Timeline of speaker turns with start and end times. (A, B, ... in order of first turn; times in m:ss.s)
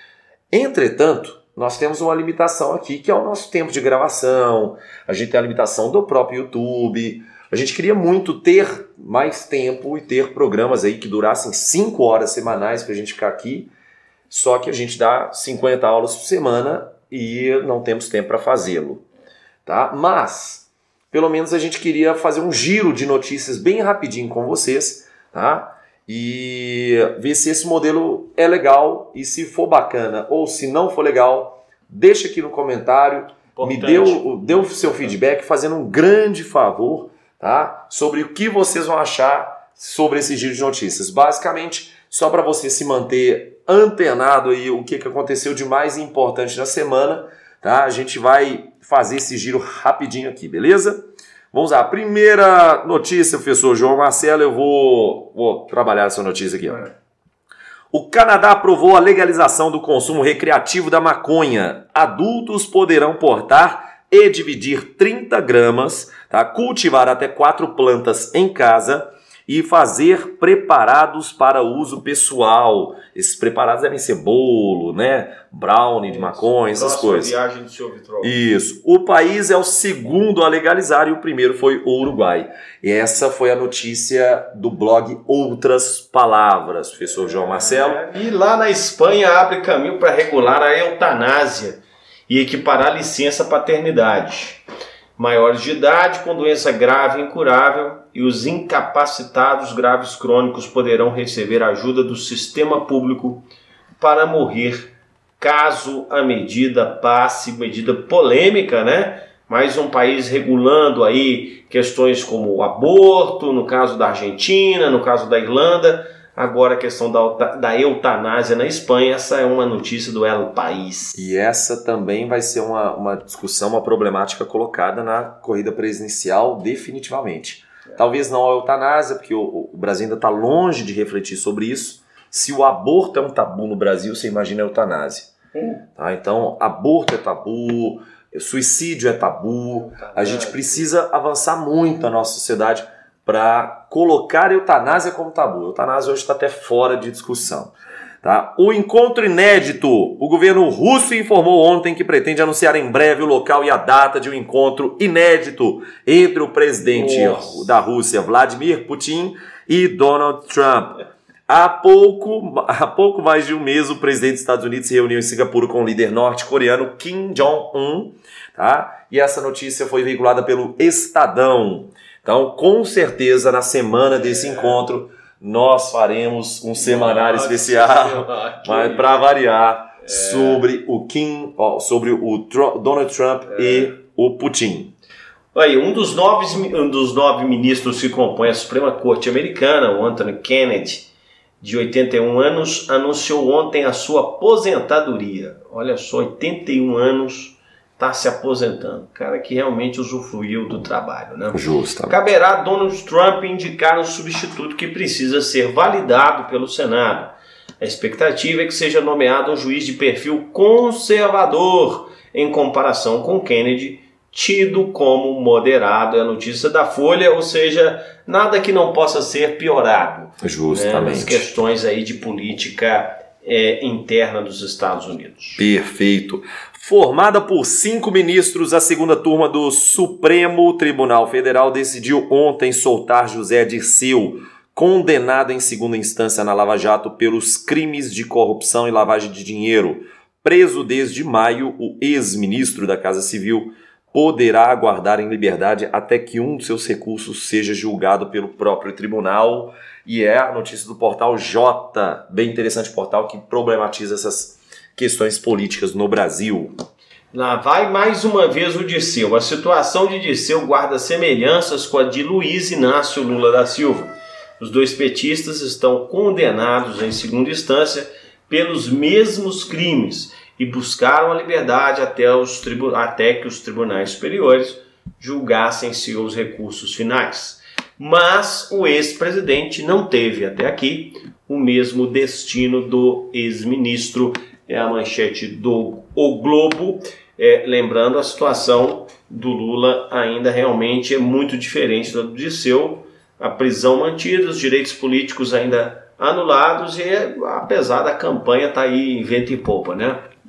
0:00.5-0:13.7 A
0:14.3-0:19.0 A
0:19.7-0:56.9 A
0:33.5-0:35.1 B
0:57.9-1:17.4 A
1:16.0-1:18.4 B
1:18.2-1:28.0 A
1:27.0-1:34.6 B
1:35.2-1:43.5 B
1:44.0-2:01.2 B
2:01.2-2:15.3 A
2:15.5-2:15.8 B
2:16.0-2:27.7 A
2:19.9-2:20.8 B
2:28.2-3:04.9 A
2:36.9-2:37.7 B
2:54.1-2:54.9 B
2:56.8-2:59.3 B
3:00.0-3:00.6 B
3:03.5-3:03.9 B
3:05.5-3:11.1 B
3:11.6-3:45.7 B
3:21.5-3:22.2 A
3:40.4-3:41.5 A
3:45.6-4:16.8 A
4:17.3-5:00.3 B